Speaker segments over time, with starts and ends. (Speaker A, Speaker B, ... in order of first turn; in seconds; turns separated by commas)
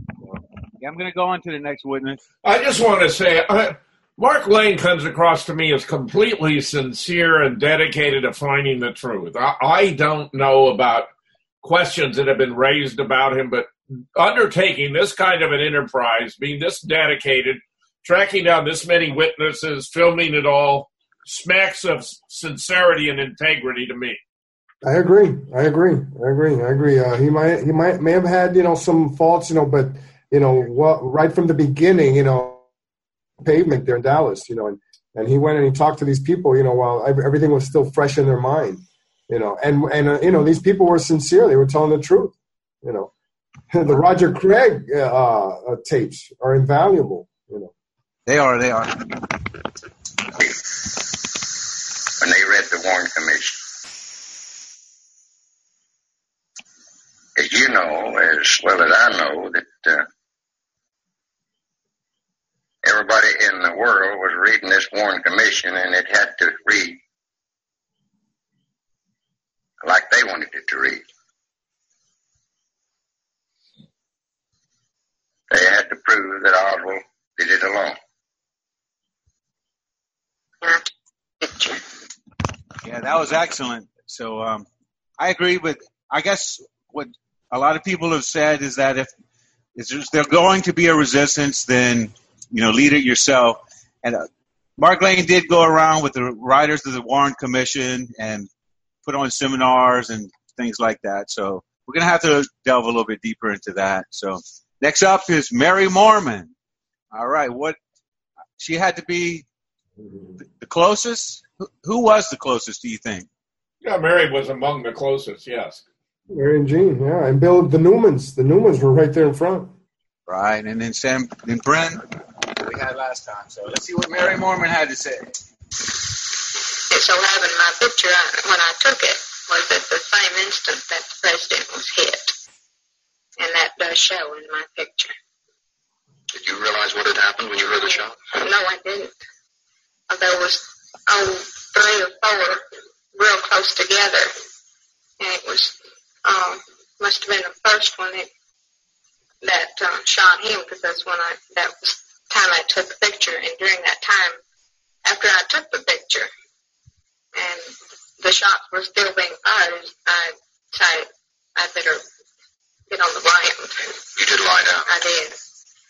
Speaker A: 0.8-2.2, Speaker B: 2.4-11.1, Speaker B: 11.6-24.2, Speaker C: 24.8-32.6, Speaker C: 33.4-43.1, Speaker C: 43.7-47.7, Speaker A: 48.2-49.3, Speaker D: 52.2-53.6, Speaker D: 57.4-60.0, Speaker D: 62.8-67.0, Speaker D: 69.8-71.0, Speaker D: 75.5-78.0, Speaker A: 82.8-84.7, Speaker A: 85.2-89.1, Speaker A: 89.7-94.2, Speaker A: 94.8-98.5, Speaker A: 99.0-106.5, Speaker A: 107.1-107.8, Speaker A: 108.6-109.4, Speaker A: 110.5-113.3, Speaker B: 113.8-115.8, Speaker C: 116.3-119.7, Speaker A: 120.3-125.3, Speaker E: 126.9-132.3, Speaker E: 133.4-135.1, Speaker F: 136.3-138.2, Speaker E: 137.7-139.2, Speaker E: 140.1-142.6, Speaker E: 143.1-144.3, Speaker E: 145.2-148.3, Speaker E: 149.4-154.4, Speaker E: 155.0-156.3, Speaker E: 157.3-162.0, Speaker E: 162.9-164.0, Speaker F: 164.2-164.8, Speaker E: 164.8-165.4